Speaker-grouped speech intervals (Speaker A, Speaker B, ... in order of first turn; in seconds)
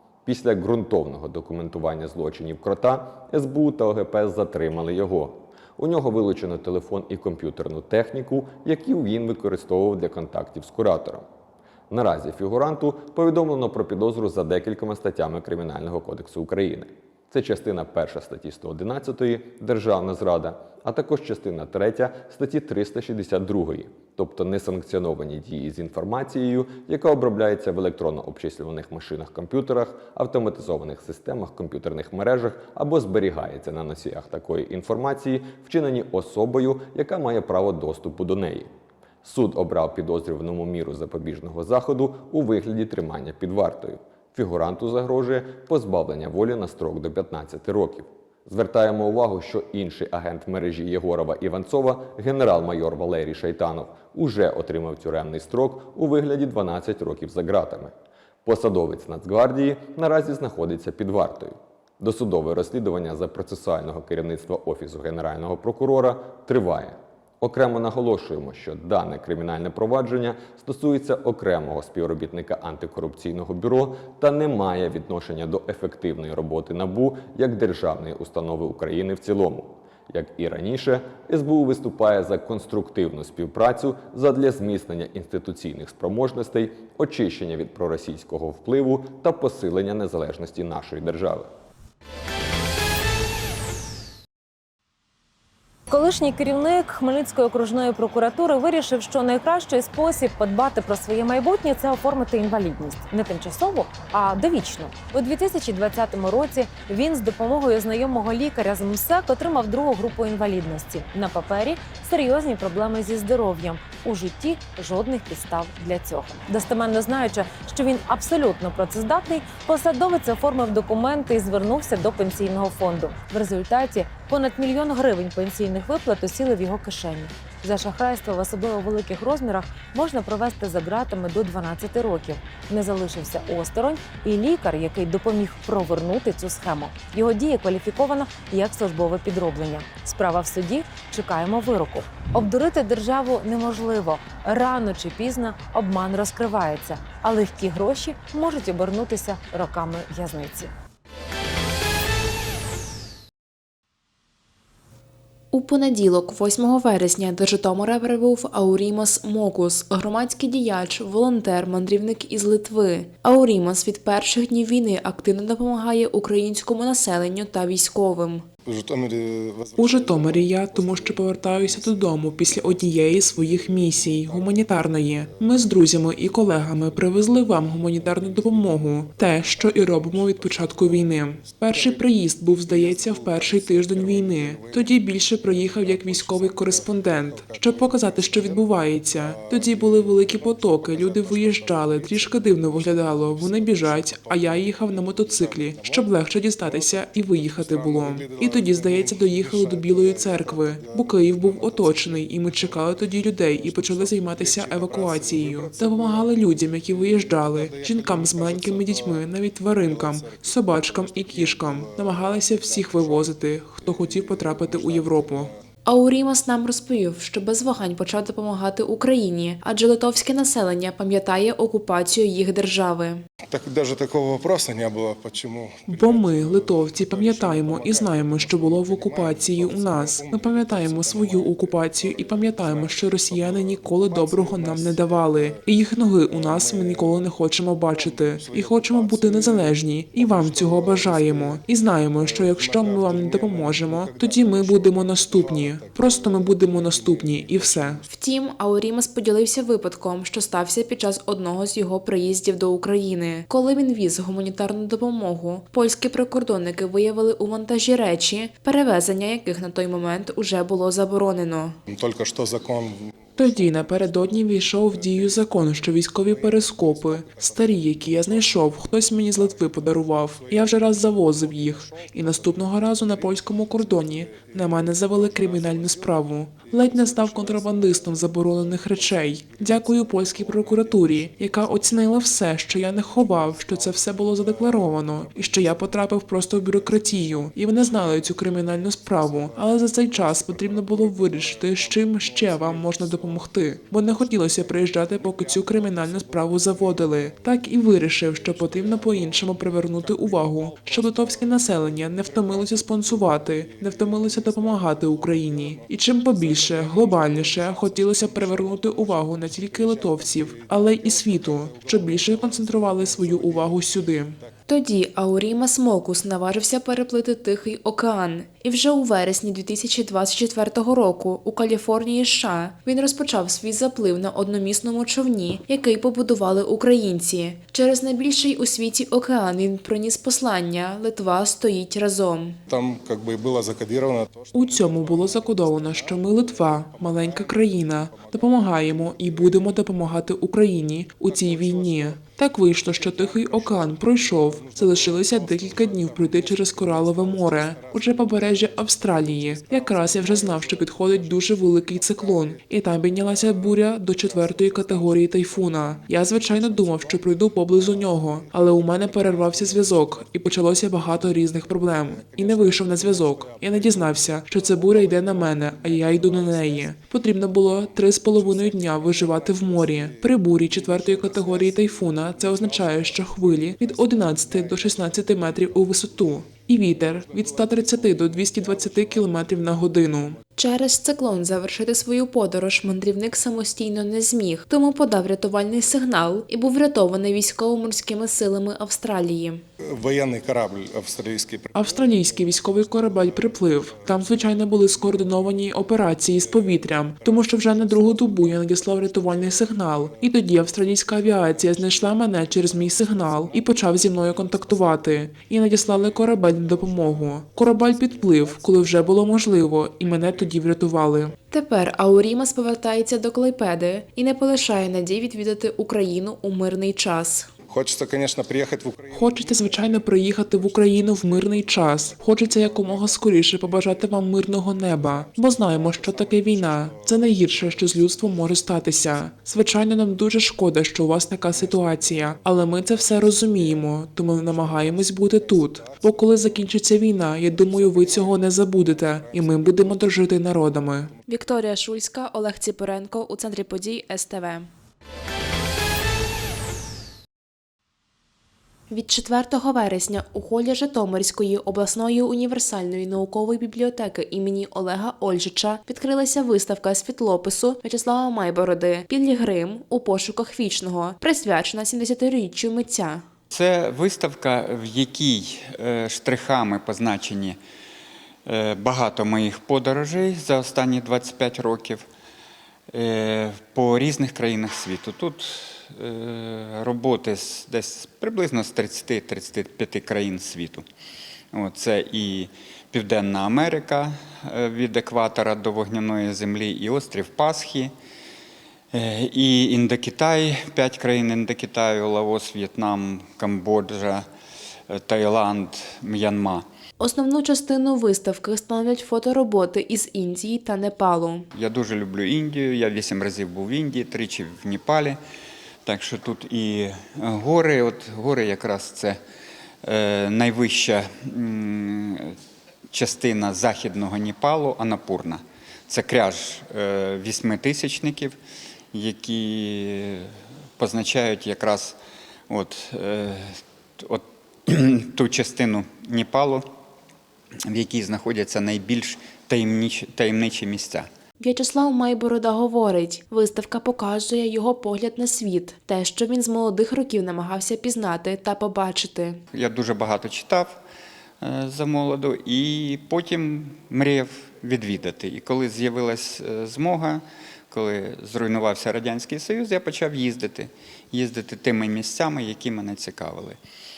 Speaker A: 0.2-11.2, 11.9-38.7, 39.2-57.9, 58.4-91.5
Speaker B: 95.9-150.7
Speaker C: 155.5-168.4, 215.8-223.2, 248.1-261.8, 314.7-332.6, 380.6-389.6, 411.5-417.5, 441.2-444.7, 448.9-463.2, 497.0-501.5, 531.4-539.4
Speaker D: 168.7-175.8, 176.9-177.3, 177.8-215.5, 223.5-237.3, 237.9-248.0, 261.9-282.3, 283.0-314.2, 332.7-339.8, 341.2-367.1, 367.6-380.3, 389.9-395.4, 396.1-405.0, 405.9-408.8, 417.7-428.7, 430.0-430.3, 431.5-436.8, 437.4-440.3
Speaker E: 169.8-215.5, 225.9-248.0, 263.4-314.4, 334.5-380.4, 391.7-411.3, 419.1-441.1
Speaker F: 463.5-467.6, 468.4-472.0, 472.9-480.8, 481.5-487.9, 488.9-494.2, 494.9-496.6, 501.5-505.2, 505.8-509.2, 509.8-512.3, 512.9-518.4, 518.9-522.0, 522.5-526.6, 527.7-531.1, 539.5-540.8, 541.4-553.6